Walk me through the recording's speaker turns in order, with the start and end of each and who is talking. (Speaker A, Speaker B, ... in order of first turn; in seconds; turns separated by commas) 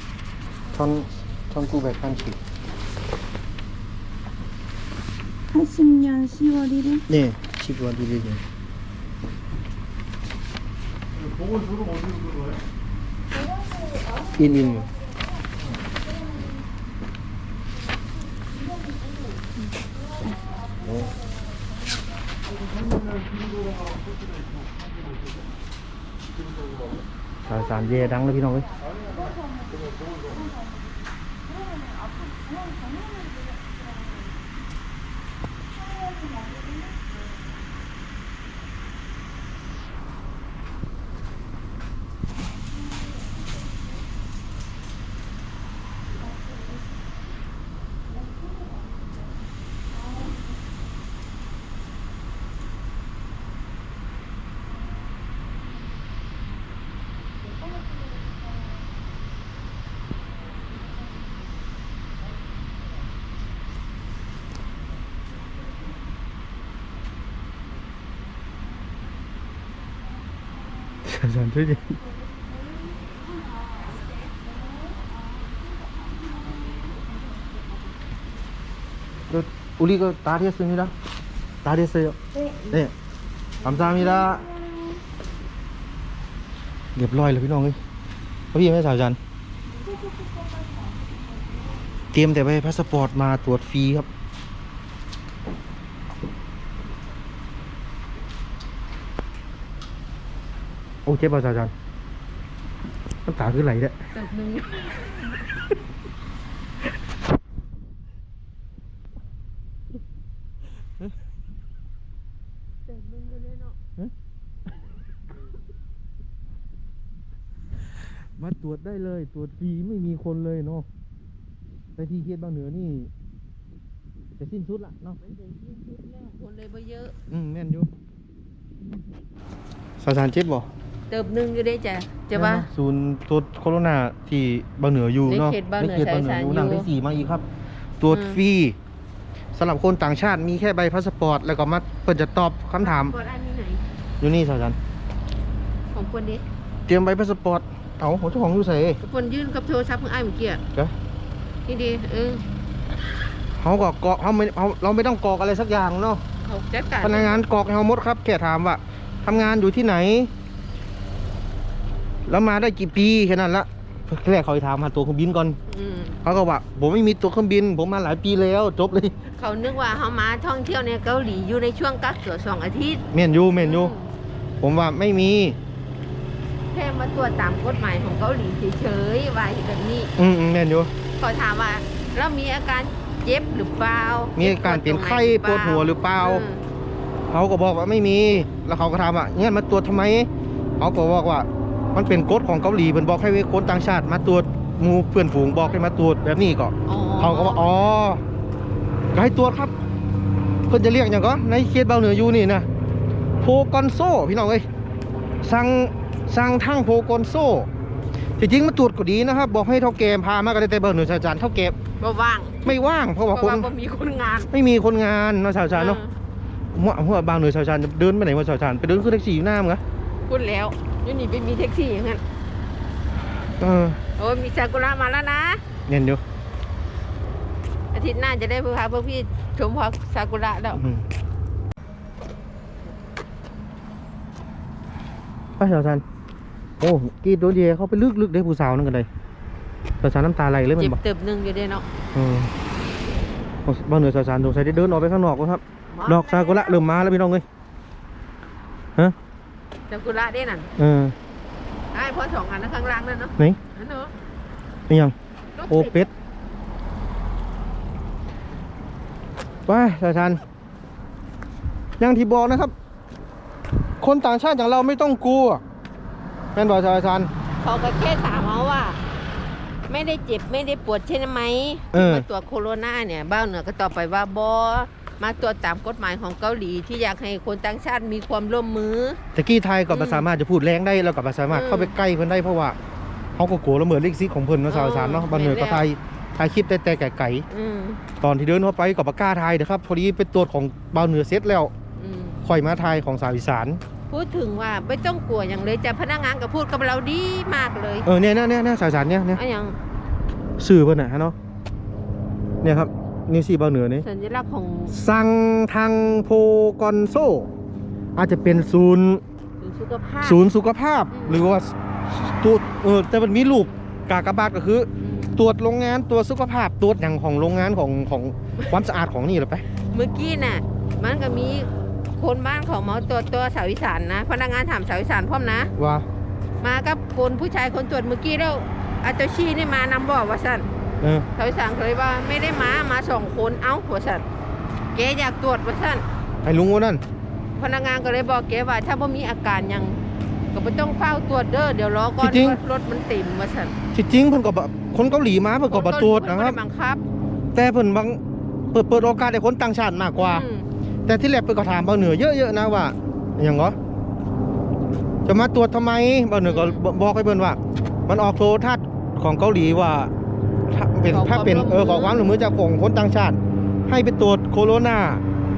Speaker A: 0.7-2.4, Speaker B: 5.5-7.1, Speaker A: 7.1-8.4, Speaker A: 14.3-14.9, Speaker A: 20.8-21.2, Speaker A: 27.5-28.8, Speaker A: 71.0-72.0, Speaker A: 79.3-80.9, Speaker A: 81.6-82.2, Speaker B: 82.3-82.8, Speaker A: 83.6-84.5, Speaker B: 83.7-85.0, Speaker A: 87.0-87.8, Speaker A: 88.5-89.2, Speaker B: 89.8-90.8, Speaker A: 92.1-94.1, Speaker A: 101.0-101.7, Speaker A: 103.2-104.0, Speaker C: 104.1-105.3, Speaker C: 112.9-113.8, Speaker A: 118.4-120.9, Speaker A: 122.0-123.1, Speaker A: 124.4-125.2, Speaker C: 125.2-127.2, Speaker A: 127.3-127.9, Speaker A: 130.0-130.7, Speaker C: 131.1-132.7, Speaker A: 132.3-137.4, Speaker C: 135.3-136.9, Speaker A: 138.0-138.8, Speaker C: 138.1-138.4, Speaker A: 139.5-143.1, Speaker C: 142.8-143.8, Speaker A: 144.2-144.8, Speaker C: 145.9-146.4, Speaker A: 146.9-149.0, Speaker C: 149.0-150.6, Speaker C: 151.7-152.4, Speaker A: 153.6-156.2, Speaker C: 156.4-157.4, Speaker A: 157.0-160.3, Speaker A: 162.3-165.6, Speaker C: 165.7-166.2, Speaker A: 166.2-169.1, Speaker C: 169.4-173.0, Speaker A: 173.1-173.9, Speaker C: 173.6-174.1, Speaker A: 174.6-175.6, Speaker C: 176.7-180.1, Speaker A: 180.2-180.9, Speaker C: 181.2-186.6, Speaker A: 184.4-186.4, Speaker A: 187.3-190.3, Speaker A: 190.8-198.2, Speaker C: 196.9-197.9, Speaker A: 199.1-199.7, Speaker A: 200.7-202.7, Speaker A: 203.4-204.7, Speaker A: 205.4-207.7, Speaker A: 208.4-211.7, Speaker C: 212.0-214.5, Speaker A: 212.7-213.7, Speaker A: 214.5-216.0, Speaker C: 215.7-216.1, Speaker A: 216.7-219.8, Speaker C: 220.3-222.2, Speaker A: 223.6-224.0, Speaker C: 224.2-225.6, Speaker A: 225.9-226.2, Speaker C: 227.9-230.8, Speaker A: 230.8-231.1, Speaker A: 235.6-236.0, Speaker A: 236.8-239.1, Speaker A: 240.0-241.0, Speaker C: 240.8-241.9, Speaker A: 242.1-242.5, Speaker A: 243.7-247.4, Speaker C: 245.9-246.8, Speaker C: 249.9-250.7, Speaker A: 250.8-251.2, Speaker C: 251.9-254.1, Speaker A: 254.9-255.1, Speaker C: 255.6-256.1, Speaker A: 255.7-256.1, Speaker A: 259.7-260.4, Speaker A: 262.0-262.7, Speaker A: 264.0-265.6, Speaker A: 266.6-267.3, Speaker C: 267.6-269.0, Speaker C: 269.9-279.2, Speaker A: 271.9-272.3, Speaker A: 279.4-282.8, Speaker C: 279.9-280.3, Speaker C: 281.5-281.9, Speaker A: 283.4-287.4, Speaker C: 284.7-285.8, Speaker C: 287.5-288.0, Speaker A: 288.2-291.7, Speaker C: 292.0-292.4, Speaker A: 292.4-293.8, Speaker C: 294.1-298.1, Speaker A: 298.1-299.4, Speaker C: 299.3-299.8, Speaker A: 300.6-301.4, Speaker A: 302.6-304.1, Speaker C: 304.0-305.0, Speaker A: 304.9-307.5, Speaker A: 308.2-309.2, Speaker C: 309.6-310.4, Speaker A: 310.2-319.6, Speaker C: 311.1-311.5, Speaker C: 315.0-315.4, Speaker C: 319.9-325.7, Speaker A: 325.8-326.1, Speaker C: 326.6-330.7, Speaker C: 331.4-334.2, Speaker C: 334.9-336.1, Speaker A: 336.4-337.0, Speaker C: 337.6-340.0, Speaker C: 340.5-343.8, Speaker A: 342.2-342.6, Speaker A: 343.9-346.6, Speaker C: 345.7-347.0, Speaker A: 347.5-348.2, Speaker A: 348.7-350.5, Speaker C: 350.2-350.7, Speaker A: 351.1-353.8, Speaker A: 355.3-360.1, Speaker C: 356.4-356.8, Speaker A: 360.7-365.2, Speaker C: 361.1-362.2